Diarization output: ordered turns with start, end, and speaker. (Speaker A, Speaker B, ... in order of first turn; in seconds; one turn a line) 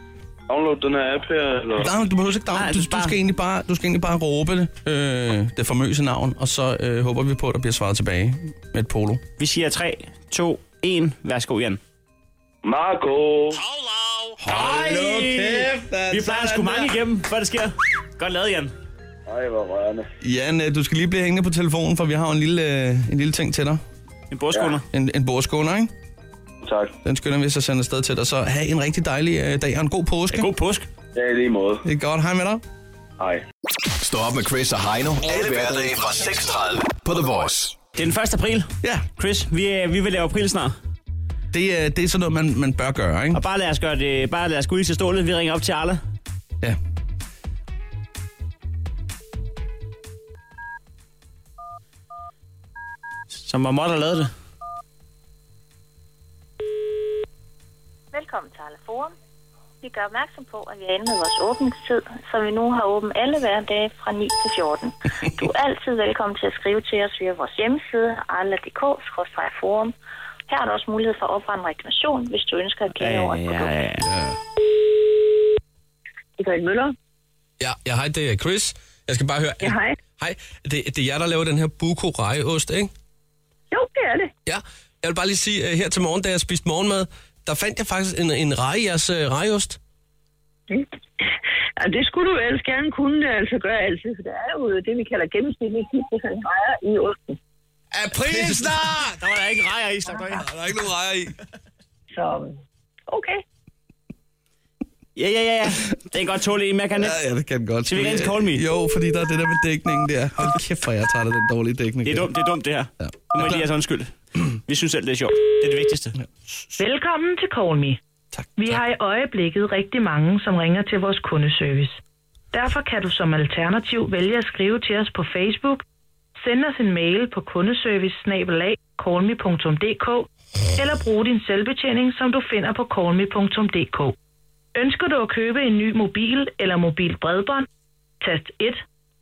Speaker A: 0.5-1.9
Speaker B: 1.8-9.2
Speaker C: 2.5-3.1
Speaker C: 9.4-11.8
Speaker A: 12.6-13.6
Speaker B: 14.4-16.9
Speaker C: 14.5-18.7
Speaker A: 19.3-20.1
Speaker B: 20.2-23.8
Speaker C: 24.3-24.8
Speaker B: 24.9-25.9
Speaker A: 26.6-26.9
Speaker B: 27.0-30.5
Speaker C: 30.3-30.9
Speaker A: 31.1-31.8
Speaker B: 31.8-32.6
Speaker D: 34.0-37.8
Speaker C: 38.0-40.7
Speaker B: 41.5-43.4
Speaker C: 43.3-46.0
Speaker C: 53.3-54.3
Speaker E: 58.1-59.1
Speaker E: 59.8-69.9
Speaker E: 70.5-73.7
Speaker C: 73.0-74.1
Speaker B: 74.1-74.3
Speaker F: 76.4-76.9
Speaker G: 77.6-82.9
Speaker F: 79.6-80.0
Speaker F: 83.7-84.3
Speaker G: 84.5-89.8
Speaker F: 91.8-97.4
Speaker G: 98.0-99.1
Speaker B: 98.1-99.1
Speaker C: 99.2-100.5
Speaker B: 100.3-101.3
Speaker F: 102.1-102.6
Speaker F: 103.1-103.4
Speaker C: 105.2-107.2
Speaker B: 107.0-112.3
Speaker C: 107.8-108.6
Speaker C: 112.0-114.1
Speaker B: 113.0-113.7
Speaker C: 114.6-116.1
Speaker H: 116.8-118.0
Speaker B: 118.3-118.8
Speaker H: 118.6-122.0
Speaker H: 122.5-125.8
Speaker H: 126.4-134.1
Speaker H: 134.7-137.7
Speaker H: 138.2-138.8